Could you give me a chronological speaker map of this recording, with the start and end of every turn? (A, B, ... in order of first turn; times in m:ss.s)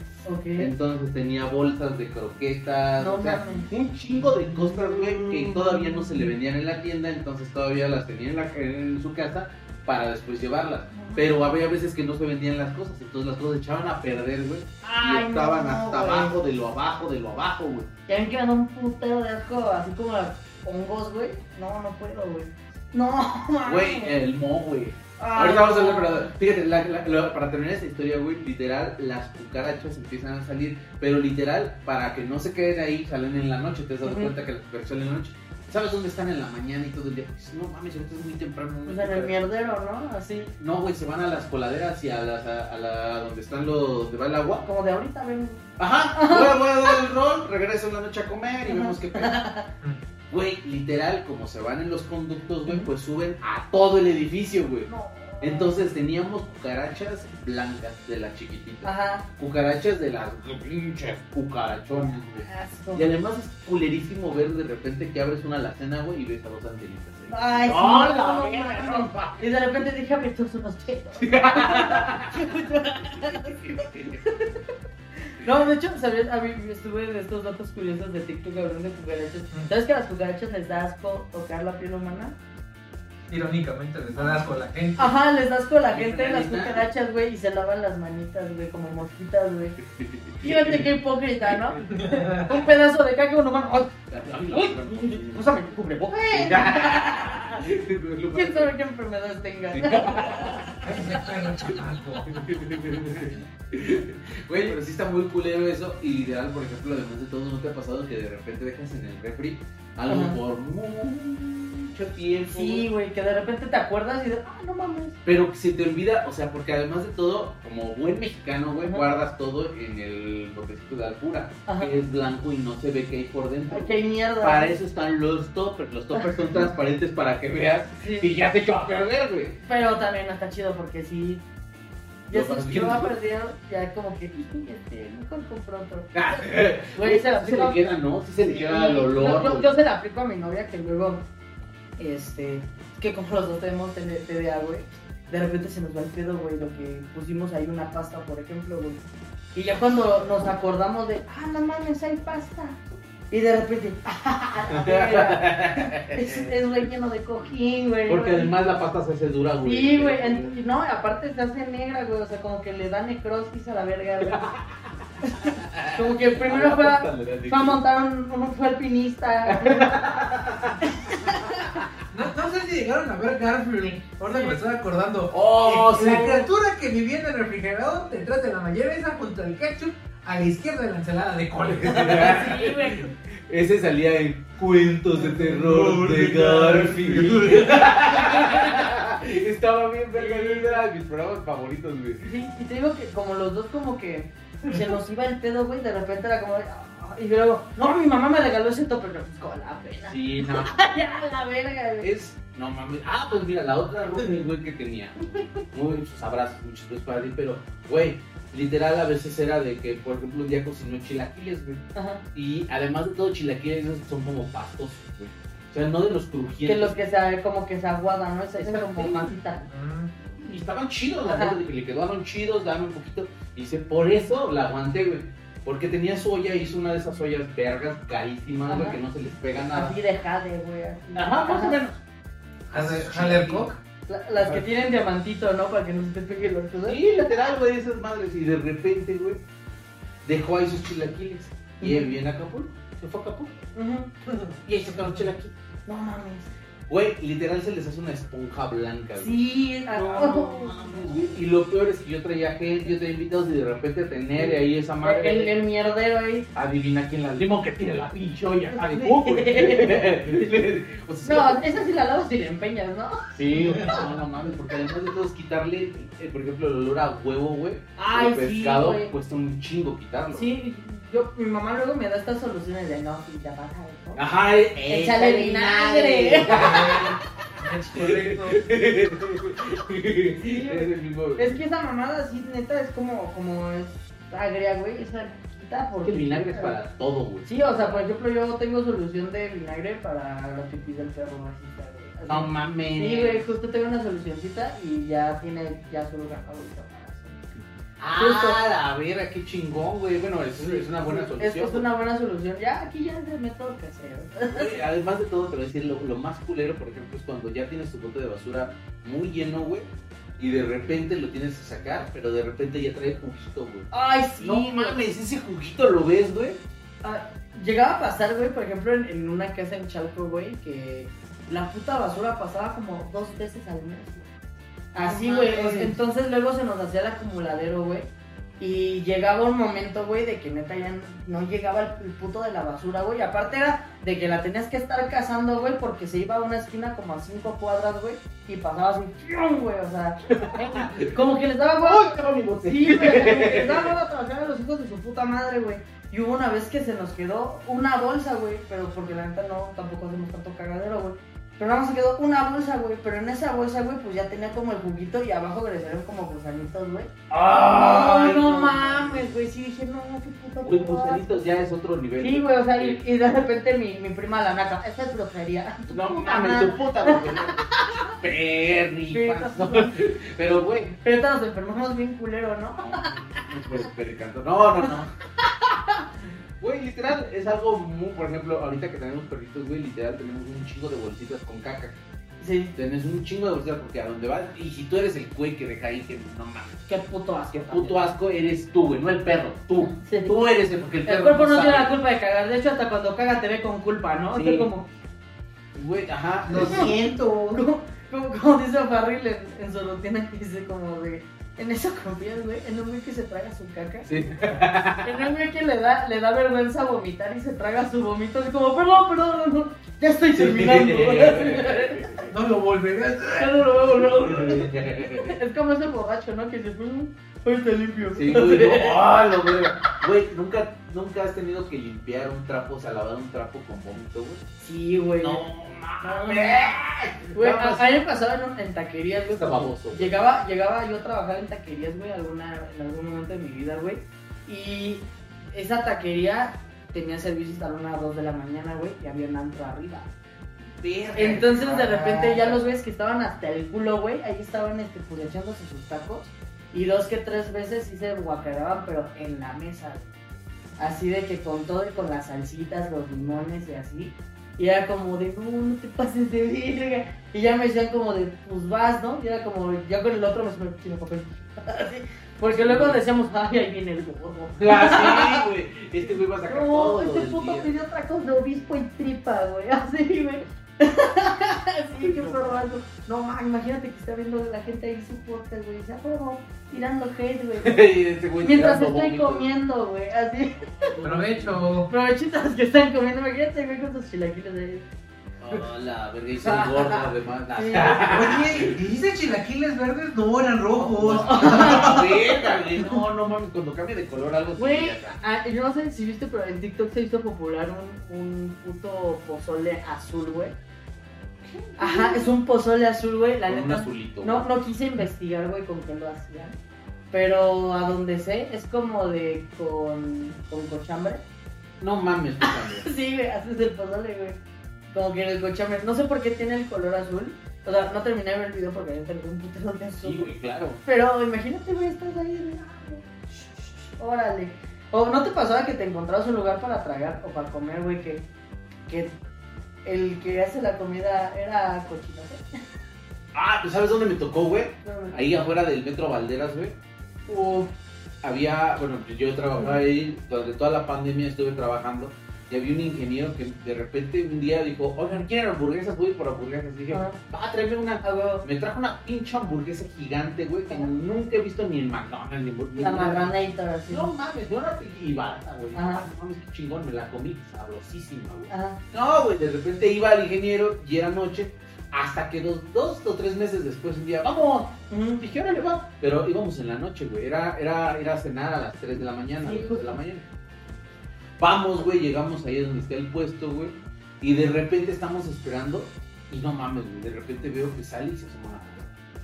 0:00.2-0:00.7 A
0:00.6-0:17.9 B
0:03.0-0:03.7 A
0:04.5-0:06.0 A
0:10.9-0:11.3 A
0:14.8-0:16.4 A
0:18.1-0:24.2 A
0:23.6-0:39.3 B
0:25.2-0:26.3 A
0:34.0-0:34.3 A
0:38.9-0:40.5 A
0:40.6-0:44.6 B
0:44.6-0:47.0 A
0:45.8-0:49.4 B
0:48.6-0:49.7 A
0:50.3-0:54.9 B
0:54.9-0:55.8 A
0:55.4-1:09.5 B
0:58.8-0:59.3 A
1:02.3-1:03.1 A
1:07.3-1:14.6 A
1:11.2-1:12.6 B
1:13.1-1:14.2 B
1:15.3-1:22.4 A
1:23.3-1:25.1 C
1:24.2-1:29.8 A
1:25.9-1:26.9 B
1:29.8-1:30.9 B
1:30.4-1:33.9 A
1:31.9-1:32.5 C
1:34.1-1:38.7 B
1:34.5-1:37.6 A
1:38.3-1:41.1 A
1:39.7-1:41.2 B
1:40.8-1:42.5 C
1:42.2-1:52.9 B
1:50.1-1:50.4 A
1:52.5-1:55.2 A
1:55.2-2:09.6 B
2:03.7-2:04.8 A
2:06.2-2:06.6 A
2:08.0-2:08.3 A
2:09.6-2:11.4 A
2:12.3-2:17.8 A
2:12.3-2:13.1 B
2:16.1-2:19.7 B
2:18.4-2:21.2 A
2:22.0-2:29.0 A
2:29.6-2:38.6 A
2:34.7-2:36.6 B
2:38.1-2:40.5 B
2:39.6-2:44.5 A
2:44.2-2:44.8 B
2:45.2-2:50.0 A
2:45.4-2:47.8 B
2:49.5-2:51.9 B
2:50.8-2:51.8 A
2:52.1-3:02.5 C
2:54.2-2:54.6 A
2:55.3-2:56.5 B
3:01.8-3:12.3 B
3:02.1-3:03.1 A
3:05.0-3:07.9 C
3:08.2-3:08.8 A
3:10.1-3:10.8 A
3:12.2-3:22.1 A
3:20.1-3:20.8 B
3:22.0-3:37.0 B
3:32.0-3:32.2 A
3:36.6-3:39.7 A
3:38.6-3:39.3 B
3:39.7-3:40.1 C
3:40.4-3:50.0 B
3:41.2-3:41.6 A
3:48.7-3:49.0 A
3:49.7-3:51.8 A
3:51.2-3:52.0 B
3:52.7-3:53.7 B
3:52.7-3:53.8 C
3:54.1-3:57.3 A
3:56.8-3:59.4 B
4:00.2-4:03.6 B
4:01.8-4:02.2 A
4:03.8-4:04.1 A
4:04.6-4:05.5 B
4:05.9-4:06.5 A
4:06.9-4:15.5 B
4:09.2-4:11.2 A
4:14.4-4:16.5 A
4:16.6-4:21.9 B
4:18.7-4:20.2 A
4:21.2-4:24.1 A
4:23.3-4:30.5 B
4:28.0-4:29.1 A
4:30.3-4:34.3 A
4:34.2-4:37.2 B
4:34.8-4:37.0 A
4:36.5-4:38.6 C
4:37.9-4:41.6 B
4:40.4-4:46.8 A
4:46.0-4:48.0 B
4:47.4-4:57.4 A
4:52.3-4:53.5 B
4:58.0-5:01.8 B
4:58.2-4:58.6 A
5:00.6-5:04.8 A
5:04.5-5:16.6 B
5:13.9-5:15.0 A
5:17.0-5:24.3 A
5:24.9-5:57.1 A
5:25.0-5:26.0 B
5:40.3-5:41.1 B
5:41.8-5:43.9 B
5:57.3-5:59.3 B
5:57.7-6:01.4 A
6:00.6-6:03.0 B
6:02.2-6:08.2 A
6:05.9-6:11.0 B
6:09.1-6:10.0 A
6:11.0-6:13.4 A
6:12.8-6:15.1 B
6:16.6-6:22.0 B
6:22.4-6:22.8 A
6:22.8-6:26.9 B
6:26.9-6:28.1 A
6:27.5-6:32.0 B
6:29.8-6:30.4 A
6:31.0-6:34.9 A
6:34.3-6:34.7 B
6:35.8-6:37.0 B
6:36.5-6:37.6 C
6:36.6-6:44.1 A
6:44.0-6:45.2 B
6:45.0-6:52.2 A
6:50.3-6:52.3 B
6:52.3-6:54.1 C
6:53.4-6:59.1 A
6:54.2-6:55.4 B
6:58.1-7:04.4 B
7:04.6-7:05.4 A
7:05.2-7:07.9 B
7:06.0-7:06.8 A
7:07.3-7:20.1 A
7:09.2-7:10.3 B
7:20.8-7:22.6 B
7:21.2-7:30.1 A
7:30.8-7:45.5 A
7:42.5-7:43.0 B
7:44.6-7:47.8 B
7:46.4-7:57.8 A
7:52.0-7:52.7 B
7:57.6-7:59.5 B
7:58.4-8:01.0 A
8:00.6-8:01.6 B
8:01.0-8:01.9 C
8:01.9-8:04.8 A
8:05.4-8:08.8 B
8:06.4-8:08.3 A
8:08.0-8:12.1 C
8:10.8-8:15.2 B
8:11.1-8:12.8 A
8:14.6-8:20.6 A
8:21.4-8:22.3 B
8:21.8-8:26.6 A
8:23.5-8:24.5 B
8:27.1-8:31.2 A
8:31.8-8:32.9 B
8:32.4-8:34.4 A
8:34.9-8:40.3 A
8:40.0-8:40.8 B
8:40.8-8:43.1 A
8:44.0-8:48.3 A
8:48.9-8:49.1 A
8:49.8-8:52.4 A
8:53.3-8:56.8 B
8:54.8-8:55.2 A
8:57.3-8:57.7 A
8:58.2-9:13.4 B
9:06.9-9:07.2 A
9:08.0-9:08.4 A
9:12.8-9:14.1 A
9:13.9-9:30.2 B
9:15.7-9:16.1 A
9:18.5-9:18.8 A
9:24.9-9:25.2 A
9:29.4-9:30.0 A
9:31.4-9:38.9 B